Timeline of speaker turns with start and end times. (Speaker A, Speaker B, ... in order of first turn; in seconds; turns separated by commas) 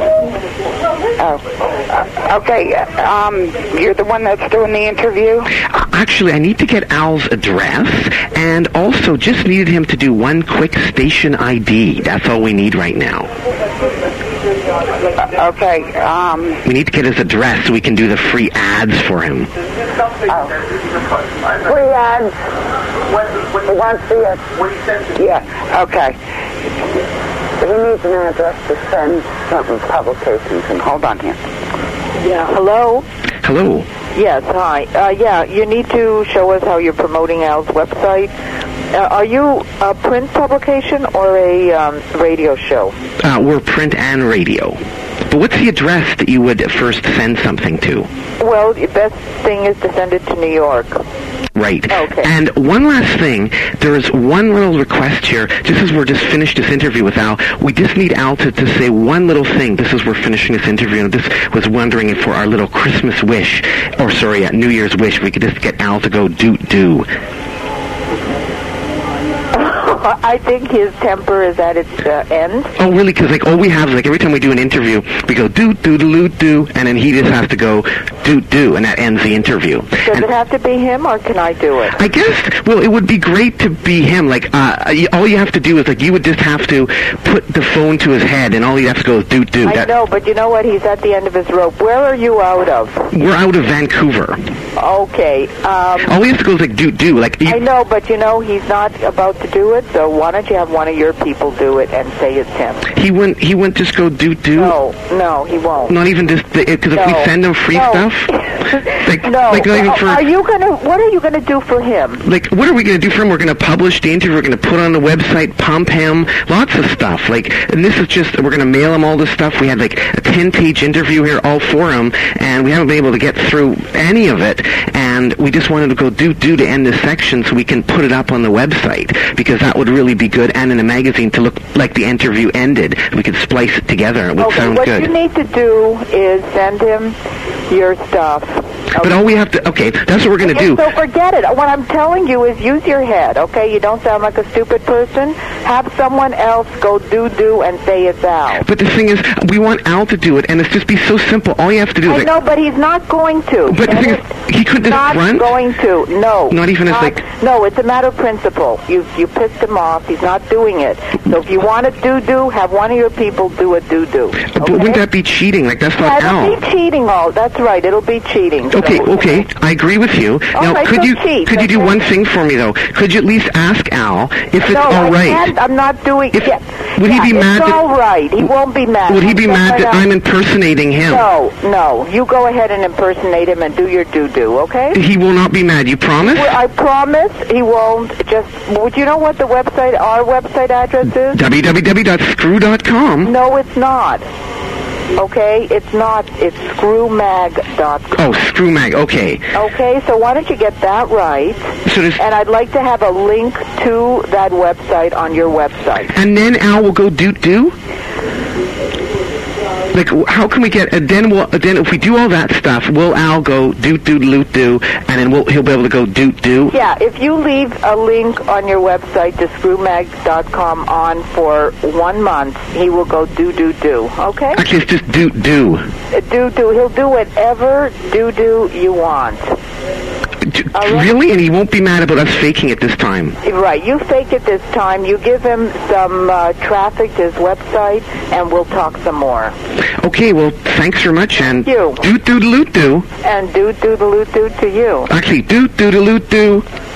Speaker A: 1.2-5.5, Speaker B: 5.5-13.3, Speaker A: 15.2-16.6, Speaker B: 16.6-19.5, Speaker A: 20.3-20.6, Speaker A: 21.4-22.3, Speaker A: 23.2-26.2, Speaker A: 27.6-31.4, Speaker C: 32.2-33.0, Speaker B: 33.4-33.9, Speaker C: 34.1-38.3, Speaker C: 38.9-42.9, Speaker B: 43.2-44.8, Speaker B: 45.3-48.1, Speaker C: 48.4-51.0, Speaker B: 51.5-67.1, Speaker C: 51.9-52.3, Speaker C: 69.5-72.7, Speaker B: 72.8-80.2, Speaker C: 80.0-82.0, Speaker B: 82.0-89.9, Speaker C: 89.6-93.0, Speaker B: 93.1-94.4, Speaker C: 94.8-96.1, Speaker B: 96.0-97.6, Speaker C: 97.4-102.9, Speaker B: 102.9-104.7, Speaker C: 104.5-106.0, Speaker B: 105.9-108.3, Speaker C: 106.9-112.2, Speaker B: 108.8-110.2, Speaker B: 112.2-135.1, Speaker C: 134.4-137.2, Speaker C: 137.7-139.1, Speaker B: 139.0-140.8, Speaker C: 140.4-148.6, Speaker B: 148.6-152.3, Speaker C: 152.0-165.0, Speaker B: 153.7-155.5, Speaker B: 156.5-157.2, Speaker B: 164.5-166.6, Speaker C: 166.0-169.4, Speaker B: 168.7-175.5, Speaker C: 170.5-172.0, Speaker C: 174.6-180.0, Speaker B: 176.3-177.8, Speaker B: 179.1-181.2, Speaker C: 181.1-185.0, Speaker B: 184.9-186.6, Speaker C: 186.2-191.4, Speaker B: 191.3-193.3, Speaker C: 193.2-194.2, Speaker C: 195.2-198.2, Speaker B: 198.1-199.5, Speaker C: 199.5-206.1, Speaker B: 201.8-202.2, Speaker B: 206.1-207.7, Speaker B: 209.9-216.7, Speaker C: 216.7-224.6, Speaker B: 224.5-225.9, Speaker C: 226.1-229.6, Speaker B: 230.4-233.4, Speaker C: 230.7-231.1, Speaker C: 233.4-239.5, Speaker B: 240.0-243.1, Speaker C: 241.6-242.0, Speaker C: 243.2-245.1, Speaker B: 245.1-246.6